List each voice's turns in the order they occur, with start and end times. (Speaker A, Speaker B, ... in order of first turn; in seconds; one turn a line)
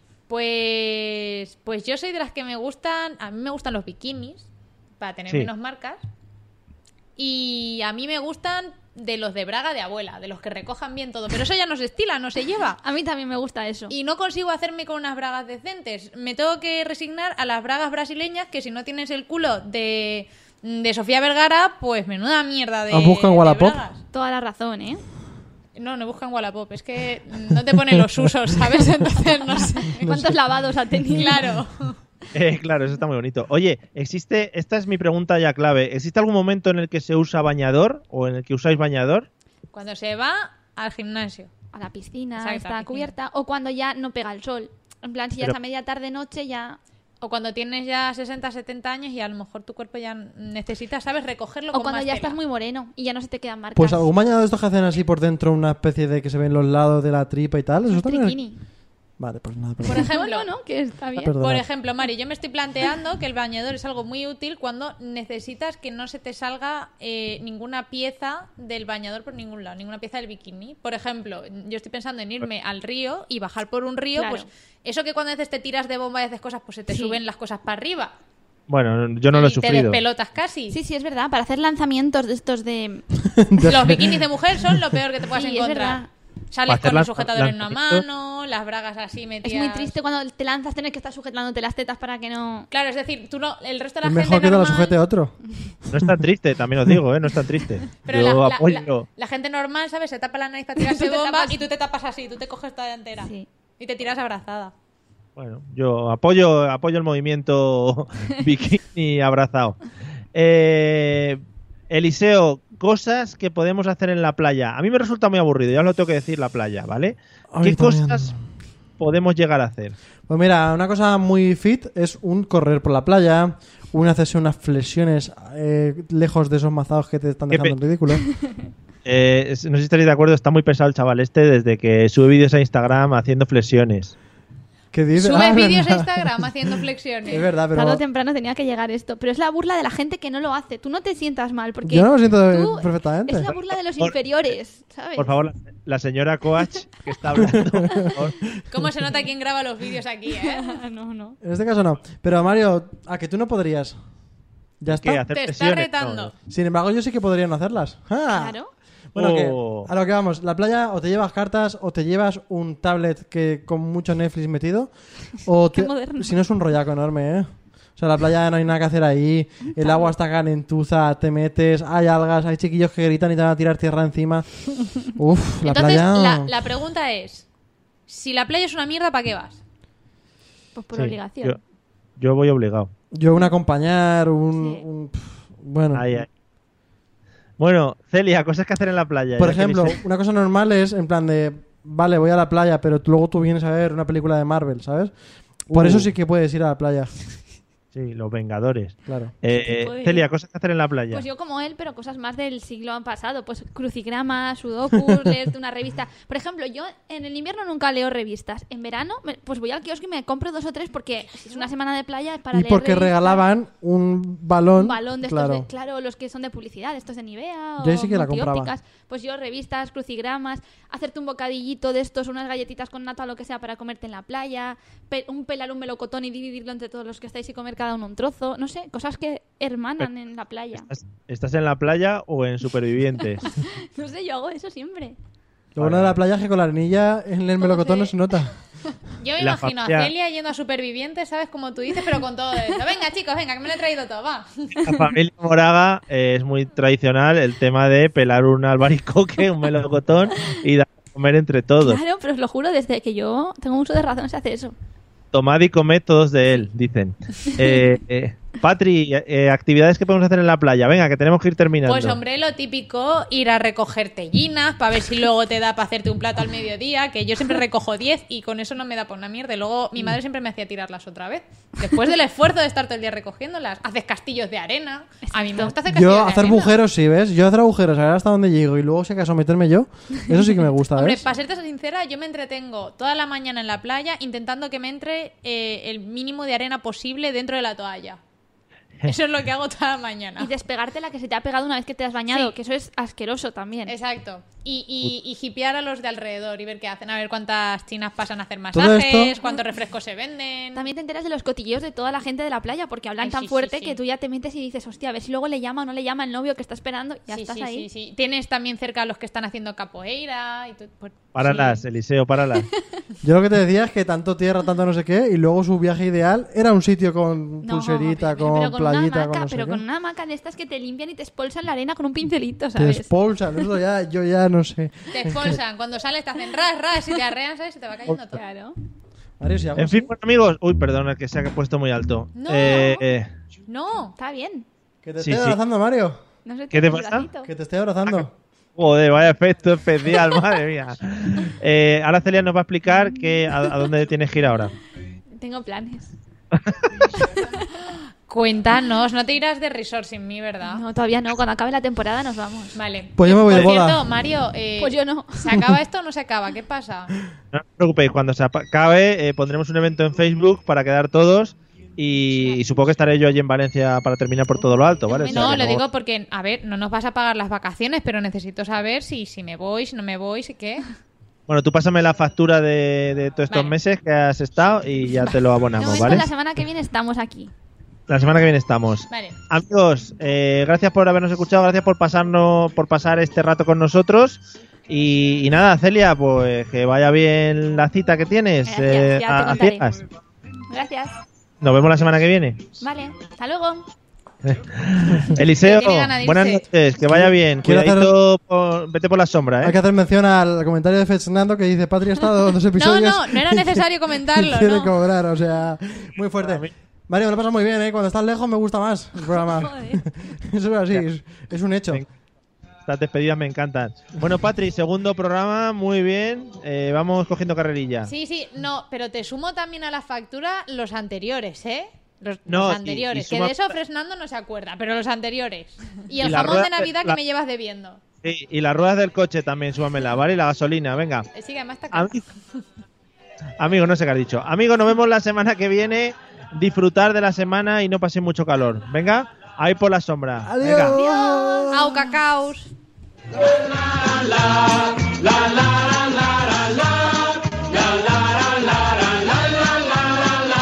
Speaker A: 0.3-4.5
Speaker A: 5.0-6.0
Speaker A: 7.2-12.8
Speaker B: 12.8-13.9
Speaker A: 13.9-24.0
Speaker C: 22.9-23.8
Speaker B: 24.1-25.0
Speaker A: 25.8-30.1
Speaker C: 30.0-30.4
Speaker B: 30.0-31.4
Speaker A: 31.1-32.0
Speaker D: 32.3-39.3
Speaker A: 39.7-41.5
Speaker B: 41.7-46.8
Speaker A: 42.4-43.1
Speaker A: 47.2-52.4
Speaker B: 51.7-54.1
Speaker C: 53.8-58.4
Speaker B: 57.9-58.6
Speaker C: 59.2-60.1
Speaker A: 59.8-60.5
Speaker B: 60.1-61.3
Speaker A: 61.0-78.1
Speaker C: 61.2-61.6
Speaker B: 74.2-74.5
Speaker B: 76.9-77.2
Speaker D: 78.7-80.0
Speaker A: 79.3-80.8
Speaker B: 80.7-83.0
Speaker C: 83.3-84.8
Speaker A: 83.7-90.0
Speaker B: 85.3-86.1
Speaker D: 86.7-88.0
Speaker B: 89.4-92.7
Speaker A: 92.7-95.0
Speaker C: 94.0-95.4
Speaker D: 95.9-99.1
Speaker A: 98.0-104.7
Speaker B: 100.8-101.7
Speaker B: 103.2-103.5
Speaker D: 105.4-109.8
Speaker D: 110.3-118.3
Speaker C: 117.5-118.4
Speaker D: 119.0-120.0
Speaker C: 120.3-128.3
Speaker D: 129.1-134.1
Speaker C: 134.9-136.7
Speaker A: 135.1-137.4
Speaker C: 137.3-138.0
Speaker B: 137.7-145.3
Speaker C: 141.8-143.5
Speaker D: 145.2-148.4
Speaker C: 147.4-148.1
Speaker A: 148.7-150.8
Speaker B: 150.4-151.4
Speaker C: 151.4-154.0
Speaker C: 154.8-155.3
Speaker D: 154.9-156.3
Speaker A: 155.3-156.3
Speaker C: 156.5-158.6
Speaker B: 158.3-158.7
Speaker C: 159.1-164.9
Speaker D: 159.1-159.9
Speaker C: 165.4-174.5
Speaker B: 165.7-166.3
Speaker B: 169.7-170.1
Speaker C: 175.0-176.5
Speaker A: 175.6-177.5
Speaker A: 178.1-179.6
Speaker B: 180.8-181.6
Speaker D: 180.9-181.6
Speaker D: 182.2-182.9
Speaker C: 183.1-186.1
Speaker B: 184.6-184.8
Speaker D: 185.9-186.3
Speaker D: 187.6-190.0
Speaker C: 189.4-195.1
Speaker C: 195.7-197.1
Speaker D: 195.7-196.1
Speaker D: 197.9-201.2
Speaker C: 199.1-199.3
Speaker B: 199.5-200.2
Speaker B: 201.1-213.4
Speaker A: 211.3-211.7
Speaker C: 212.5-215.7
Speaker B: 214.8-230.9
Speaker C: 217.8-218.7
Speaker D: 230.8-233.5
Speaker B: 233.4-235.2
Speaker C: 235.8-238.6
Speaker D: 235.8-236.2
Speaker B: 237.6-238.1
Speaker A: 239.2-244.8
Speaker D: 239.4-240.1
Speaker D: 244.8-252.0
Speaker B: 251.8-254.7
Speaker D: 255.3-262.2
Speaker A: 261.9-276.8
Speaker B: 275.2-275.8
Speaker C: 275.9-281.2
Speaker A: 280.9-288.2
Speaker A: 289.1-290.5
Speaker B: 290.4-293.9
Speaker A: 292.3-292.6
Speaker A: 293.9-300.9
Speaker C: 298.7-299.4
Speaker B: 299.4-299.7
Speaker B: 300.8-307.9
Speaker A: 303.2-304.0
Speaker A: 307.3-311.8
Speaker D: 311.3-312.7
Speaker C: 313.2-319.8
Speaker B: 317.6-323.1
Speaker C: 322.8-325.6
Speaker A: 325.1-328.4
Speaker B: 328.3-328.8
Speaker C: 329.4-330.1
Speaker D: 329.8-333.3
Speaker A: 332.4-333.0
Speaker B: 332.6-333.0
Speaker A: 333.7-334.1
Speaker B: 334.2-334.7
Speaker C: 335.0-336.2
Speaker D: 335.2-335.6
Speaker B: 336.5-337.5
Speaker D: 336.7-337.3
Speaker C: 337.4-338.3
Speaker D: 338.1-344.7
Speaker B: 345.4-346.1
Speaker D: 346.5-346.9
Speaker B: 347.3-347.5
Speaker A: 348.3-350.8
Speaker B: 350.7-352.8
Speaker A: 352.8-357.1
Speaker C: 353.2-354.1
Speaker B: 354.8-355.5
Speaker D: 357.5-365.8
Speaker B: 365.1-365.7
Speaker A: 365.3-370.9
Speaker D: 371.5-376.3
Speaker A: 373.5-373.8
Speaker B: 375.8-377.5
Speaker D: 378.1-389.9
Speaker A: 379.1-379.4
Speaker B: 388.7-389.9
Speaker B: 390.7-391.1
Speaker D: 391.6-392.6
Speaker B: 392.8-393.8
Speaker D: 394.4-399.8
Speaker A: 395.6-396.6
Speaker C: 397.1-398.1
Speaker C: 399.6-412.0
Speaker A: 402.8-404.9
Speaker D: 406.4-406.7
Speaker B: 409.2-410.1
Speaker D: 412.9-418.1
Speaker A: 418.1-428.0
Speaker D: 422.5-423.8
Speaker D: 426.2-427.2
Speaker D: 428.2-431.3
Speaker A: 431.4-432.1
Speaker D: 431.9-432.2
Speaker D: 433.6-441.0
Speaker C: 440.4-442.1
Speaker B: 441.0-441.7
Speaker A: 441.7-442.7